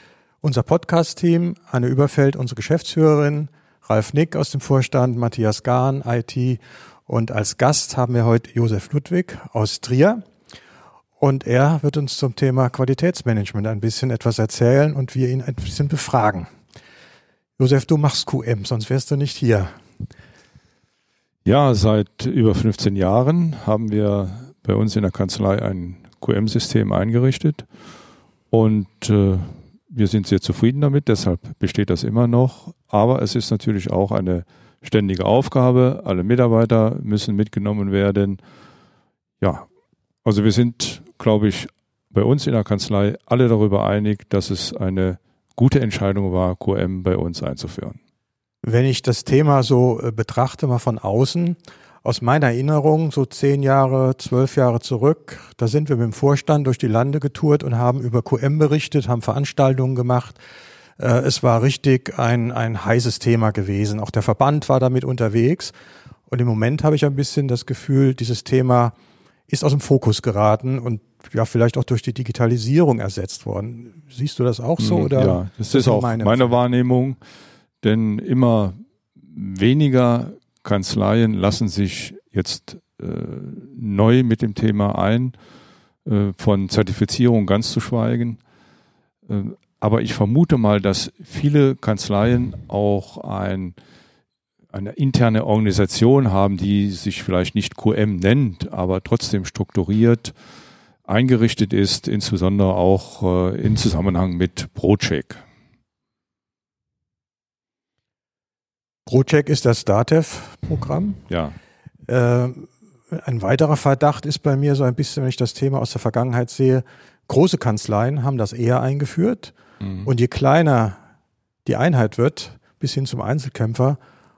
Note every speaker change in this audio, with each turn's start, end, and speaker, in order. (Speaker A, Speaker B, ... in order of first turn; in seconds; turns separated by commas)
Speaker A: 0.4-10.2, Speaker A: 11.2-16.5, Speaker A: 17.6-19.7, Speaker B: 21.4-27.7, Speaker B: 28.5-38.4, Speaker B: 39.4-39.7, Speaker B: 40.2-48.0, Speaker A: 48.6-60.4, Speaker A: 61.0-65.8, Speaker A: 66.3-69.0, Speaker A: 69.5-76.5, Speaker B: 74.8-77.2, Speaker B: 77.8-78.8, Speaker B: 79.3-85.3, Speaker B: 86.0-88.4, Speaker B: 89.3-93.8, Speaker B: 94.7-100.3, Speaker B: 101.1-105.4, Speaker A: 109.1-111.2, Speaker B: 111.3-111.6, Speaker A: 112.1-119.5, Speaker B: 119.8-120.1, Speaker A: 120.0-121.0, Speaker A: 121.7-124.0